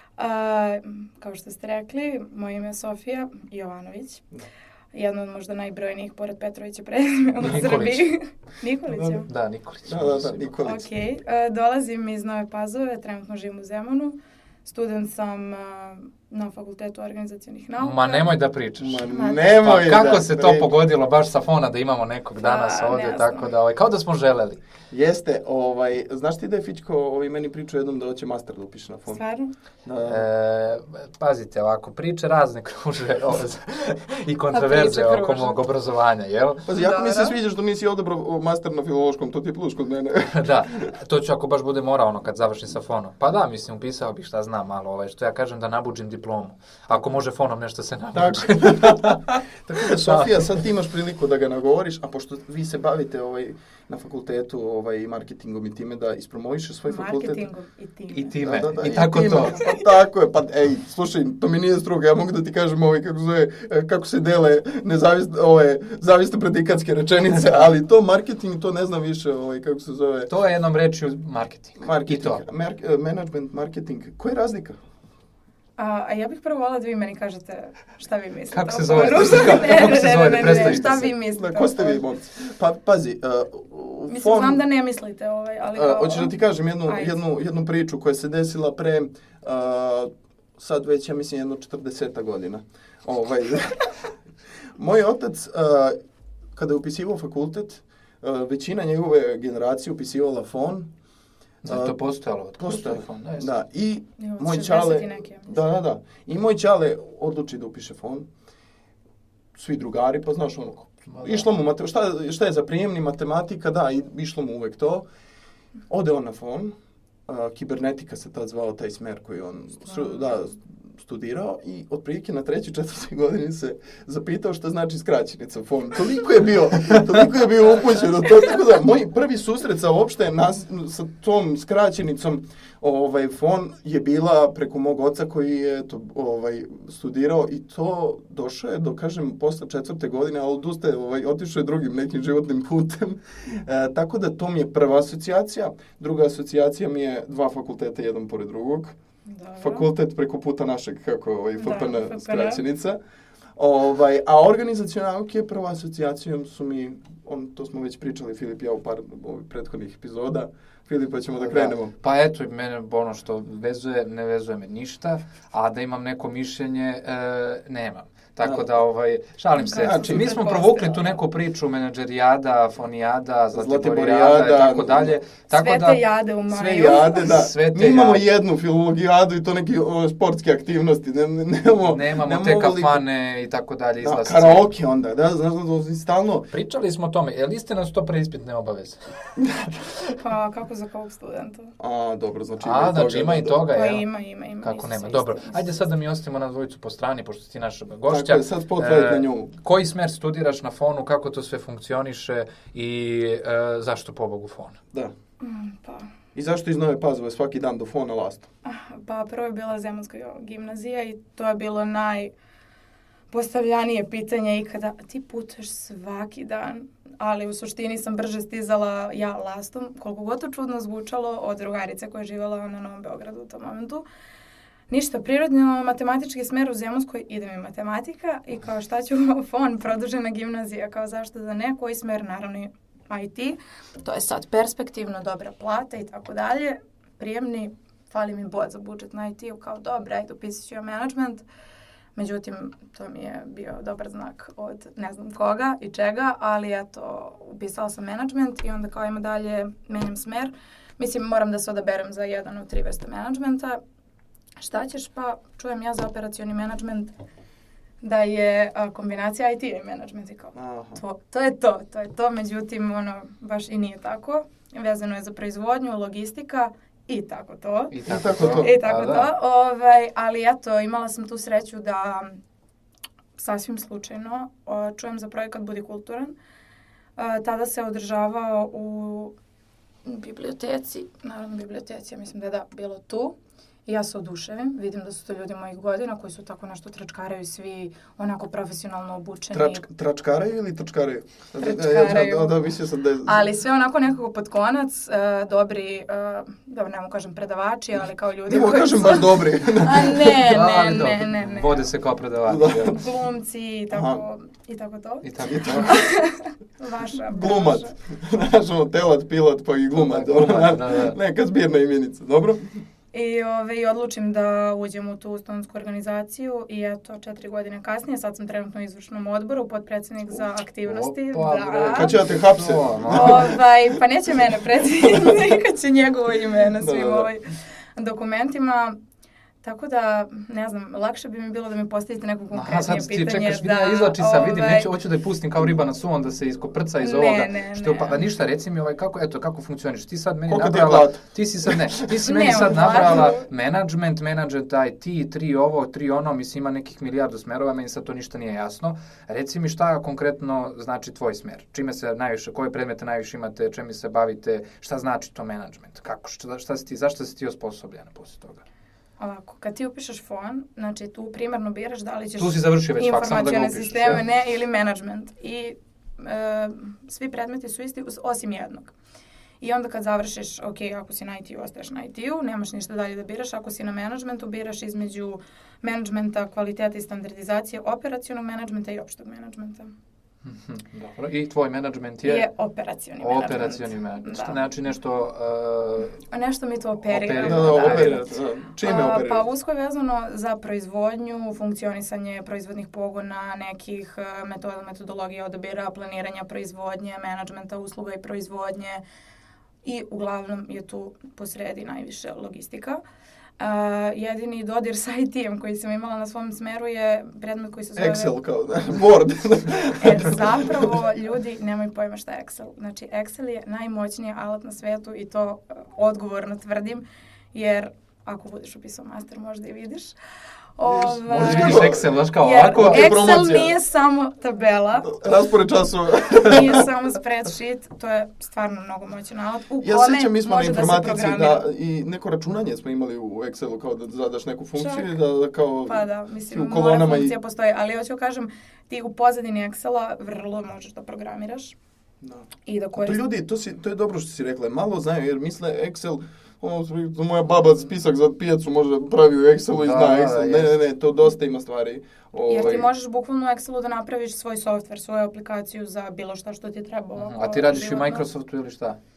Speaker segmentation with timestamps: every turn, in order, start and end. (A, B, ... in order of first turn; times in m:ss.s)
0:00.2-0:04.2 A
0:04.9-0:09.3 A
0:07.4-0:08.2 B
0:08.9-0:09.2 C
0:09.2-0:10.7 B
0:09.9-0:10.8 C
0:10.6-0:18.3 A
0:17.8-0:24.6 B
0:18.8-0:20.7 C
0:19.0-0:19.4 A
0:22.4-0:23.5 A
0:24.9-0:29.2 C
0:29.1-0:29.5 A
0:29.8-0:30.2 C
0:30.0-0:36.6 B
0:34.5-0:35.6 A
0:36.6-0:40.9 C
0:36.7-0:37.3 A
0:40.3-0:50.4 B
0:48.1-0:57.4 C
0:56.9-0:58.4 A
0:58.1-0:59.6 B
0:58.4-1:10.3 C
1:10.3-1:12.4 B
1:11.8-1:14.8 C
1:15.8-1:22.0 A
1:18.5-1:21.1 B
1:20.4-1:24.6 C
1:24.1-1:27.2 A
1:25.8-1:33.9 C
1:34.8-1:36.0 C
1:36.5-1:40.9 C
1:41.6-1:43.6 B
1:41.6-1:42.0 C
1:42.6-1:48.3 C
1:44.2-1:45.5 A
1:49.5-1:55.0 C
1:51.1-1:51.4 B
1:55.9-1:56.7 C
1:57.2-2:29.0 C
2:29.3-2:29.9 A
2:29.6-2:33.0 C
2:31.6-2:32.6 A
2:33.6-2:41.9 C
2:41.4-2:56.0 B
2:48.4-2:48.7 C
2:49.6-2:51.2 A
2:49.8-2:50.3 C
2:53.5-2:55.2 C
2:55.5-2:57.3 A
2:56.5-3:03.0 C
2:57.1-2:58.2 B
3:01.9-3:04.6 B
3:04.0-3:06.5 C
3:06.5-3:09.1 B
3:09.4-3:10.2 C
3:10.2-3:11.8 A
3:11.8-3:13.6 C
3:12.6-3:14.0 B
3:13.7-3:15.8 A
3:14.6-3:24.8 B
3:18.1-3:19.5 C
3:25.4-3:26.1 A
3:26.3-3:28.5 C
3:28.6-3:32.3 A
3:33.3-3:44.0 A
3:44.9-4:01.4 A
4:02.1-4:13.8 A
4:14.6-4:17.1 A
4:18.0-4:32.4 A
4:20.5-4:21.0 C
4:27.9-4:29.3 B
4:28.0-4:28.7 C
4:33.4-4:36.3 A
4:37.2-4:39.3 A
4:40.0-4:49.8 A
4:49.5-4:53.5 C
4:51.6-4:52.6 A
4:53.2-5:01.9 A
4:58.5-5:00.4 C
5:00.3-5:03.0 B
5:02.4-5:03.0 C
5:02.8-5:07.9 A
5:03.9-5:04.2 C
5:05.2-5:06.0 B
5:05.5-5:05.9 C
5:07.3-5:12.6 C
5:10.0-5:11.2 B
5:13.1-5:22.1 A
5:20.8-5:23.6 B
5:21.9-5:23.6 C
5:23.1-5:29.0 A
5:25.1-5:25.5 C
5:26.8-5:27.3 C
5:29.6-5:34.9 A
5:32.5-5:58.6 B
5:37.0-5:38.2 A
5:40.5-5:43.3 C
5:42.2-5:43.5 A
5:59.2-6:08.9 A
6:02.4-6:04.2 B
6:09.6-6:19.9 A
6:20.4-6:22.5 B
6:22.2-6:24.6 A
6:23.2-6:26.2 B
6:26.3-6:39.0 A
6:27.1-6:28.3 B
6:27.4-6:29.4 C
6:39.8-6:43.0 A
6:43.6-6:48.3 A
6:48.0-6:51.0 C
6:50.0-7:00.1 A
7:00.8-7:05.1 A
7:00.9-7:02.1 C
7:01.3-7:03.3 B
7:02.7-7:03.8 C
7:05.0-7:06.9 C
7:06.3-7:11.6 A
7:09.8-7:17.3 C
7:14.8-7:15.2 A
7:15.8-7:21.8 A
7:22.2-7:32.9 C
7:22.6-7:23.2 A
7:29.7-7:30.8 B
7:32.5-7:38.2 A
7:37.2-7:39.0 B